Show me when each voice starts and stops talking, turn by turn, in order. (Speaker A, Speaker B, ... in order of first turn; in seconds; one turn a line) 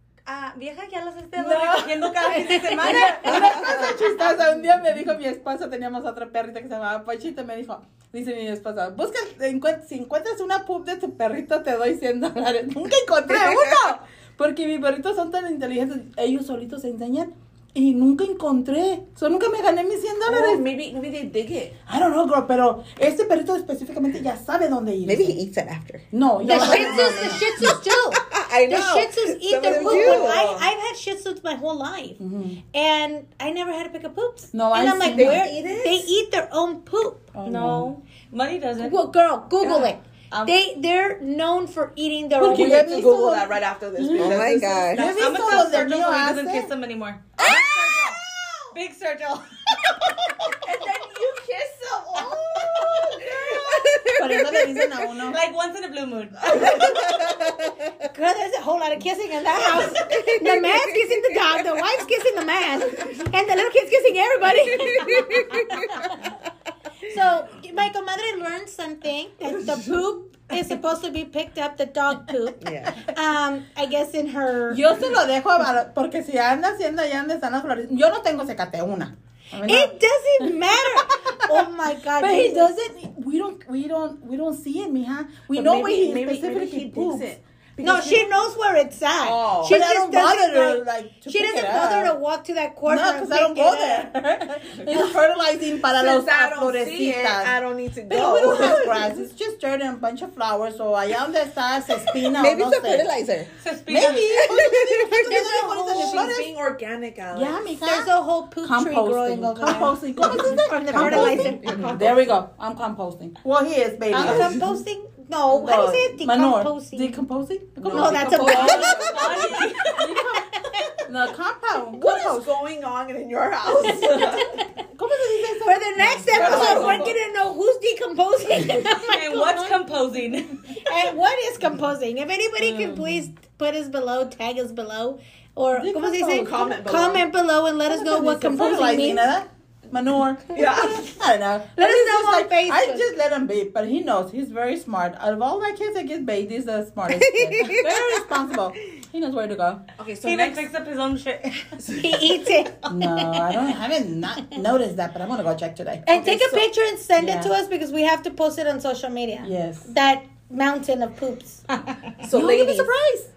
Speaker A: 0.2-4.4
Speaker B: 1.4-20.6
Speaker C: 2.3-3.1
Speaker D: 3.3-4.0
Speaker D: 13.3-13.7
Speaker E: 20.2-21.8
Speaker B: 21.9-25.4
Speaker D: 25.0-30.4
Speaker B: 26.1-27.6
Speaker C: 26.4-32.2
Speaker E: 29.7-30.6
Speaker B: 32.2-32.6
Speaker C: 32.7-37.3
Speaker B: 34.5-35.5
Speaker E: 35.1-36.0
Speaker A: 35.3-35.7
Speaker B: 37.3-37.9
Speaker A: 37.4-39.0
Speaker C: 38.8-43.0
Speaker E: 39.6-39.9
Speaker B: 42.4-46.7
Speaker E: 42.4-45.9
Speaker D: 44.2-45.1
Speaker A: 45.0-50.5
Speaker E: 47.4-48.7
Speaker E: 50.6-54.1
Speaker A: 52.7-53.0
Speaker D: 53.6-54.6
Speaker B: 54.1-55.4
Speaker A: 55.1-56.9
Speaker D: 56.6-57.7
Speaker C: 58.0-66.1
Speaker D: 60.0-60.9
Speaker C: 67.0-74.9
Speaker D: 72.6-73.0
Speaker B: 74.7-81.7
Speaker C: 79.6-82.7
Speaker B: 82.2-87.2
Speaker E: 85.5-88.3
Speaker C: 87.8-94.1
Speaker E: 89.2-89.8
Speaker B: 89.6-92.1
Speaker B: 92.8-97.5
Speaker E: 95.9-99.2
Speaker B: 98.1-103.1
Speaker D: 102.3-103.5
Speaker A: 103.6-104.4
Speaker B: 103.8-106.5
Speaker D: 104.3-106.3
Speaker E: 105.1-107.7
Speaker B: 107.3-108.1
Speaker C: 107.8-111.7
Speaker B: 108.6-114.6
Speaker D: 110.5-112.0
Speaker E: 111.6-112.2
Speaker C: 114.1-117.2
Speaker B: 115.5-119.3
Speaker E: 117.8-119.8
Speaker C: 117.9-119.1
Speaker A: 118.4-120.1
Speaker B: 119.9-122.5
Speaker C: 120.7-120.9
Speaker E: 121.9-124.5
Speaker B: 123.8-127.1
Speaker C: 124.0-124.7
Speaker C: 125.6-129.8
Speaker E: 126.3-127.1
Speaker A: 128.8-130.8
Speaker C: 130.7-139.2
Speaker E: 132.6-133.0
Speaker B: 135.7-136.6
Speaker E: 136.3-137.2
Speaker B: 137.9-149.8
Speaker E: 140.5-141.1
Speaker C: 141.8-143.1
Speaker D: 147.1-148.2
Speaker E: 150.0-150.7
Speaker A: 150.2-151.8
Speaker E: 151.8-152.2
Speaker C: 152.0-153.5
Speaker B: 152.9-156.2
Speaker C: 156.1-161.7
Speaker E: 156.2-156.6
Speaker B: 157.2-157.5
Speaker B: 159.4-159.9
Speaker E: 162.2-162.9
Speaker B: 162.3-163.2